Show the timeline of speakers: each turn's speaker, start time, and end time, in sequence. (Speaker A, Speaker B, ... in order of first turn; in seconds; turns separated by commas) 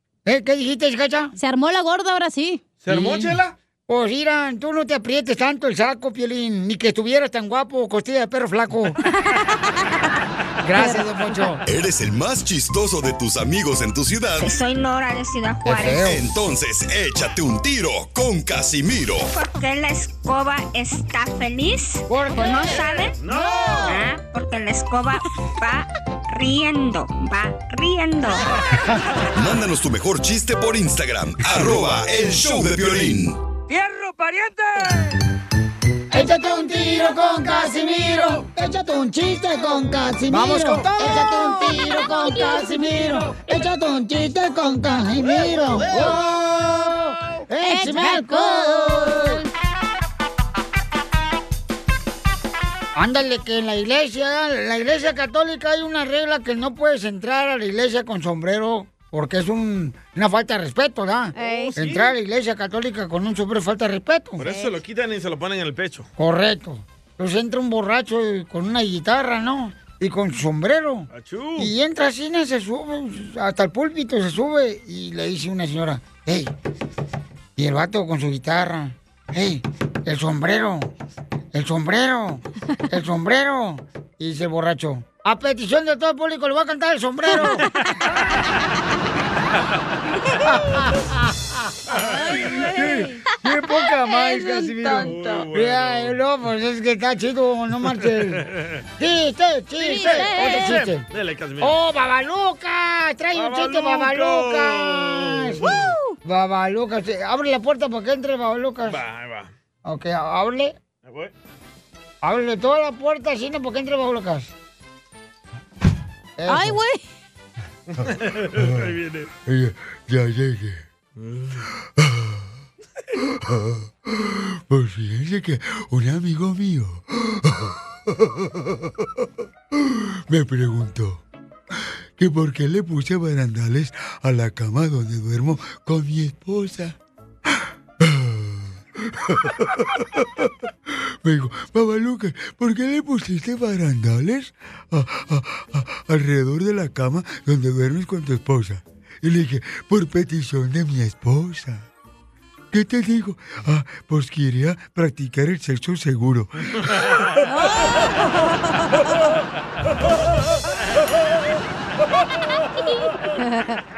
Speaker A: 0.3-1.4, Speaker B: 1.4-2.6, Speaker C: 2.8-3.5, Speaker A: 2.9-3.4, Speaker A: 3.9-9.0, Speaker B: 9.1-9.8, Speaker A: 10.6-11.6, Speaker B: 10.7-11.5, Speaker D: 11.7-14.5, Speaker E: 14.4-16.1, Speaker A: 15.7-16.2, Speaker D: 15.9-19.3, Speaker E: 19.3-23.2, Speaker A: 22.1-22.8, Speaker B: 22.3-24.0, Speaker C: 23.2-24.0, Speaker E: 23.9-28.5, Speaker D: 29.3-33.4, Speaker A: 36.1-49.4, Speaker B: 37.3-37.7, Speaker B: 40.3-43.4, Speaker B: 47.6-49.5, Speaker A: 53.0-64.5, Speaker B: 61.4-61.8, Speaker C: 61.4-62.2, Speaker C: 64.4-66.1, Speaker B: 64.4-64.8, Speaker A: 66.2-76.5, Speaker C: 71.1-71.7, Speaker A: 77.6-80.9, Speaker A: 81.5-87.7, Speaker A: 90.5-91.3, Speaker B: 91.9-95.5, Speaker C: 92.0-92.7, Speaker A: 92.8-98.4, Speaker C: 94.8-96.2, Speaker C: 98.2-98.8, Speaker A: 99.0-101.0, Speaker B: 99.8-100.8, Speaker C: 99.9-101.8, Speaker A: 101.6-105.7, Speaker C: 103.3-105.8, Speaker B: 105.7-106.1, Speaker A: 106.2-109.0, Speaker C: 108.8-109.5, Speaker A: 109.8-110.8, Speaker C: 111.1-111.3, Speaker A: 112.2-114.5, Speaker A: 116.4-116.8, Speaker B: 116.5-117.0, Speaker C: 118.0-119.3, Speaker F: 119.5-120.8, Speaker C: 121.2-121.6, Speaker F: 122.0-122.5, Speaker F: 123.3-131.2, Speaker F: 132.2-136.9, Speaker F: 138.0-140.5, Speaker F: 141.2-151.8, Speaker F: 152.7-156.9, Speaker B: 157.4-158.8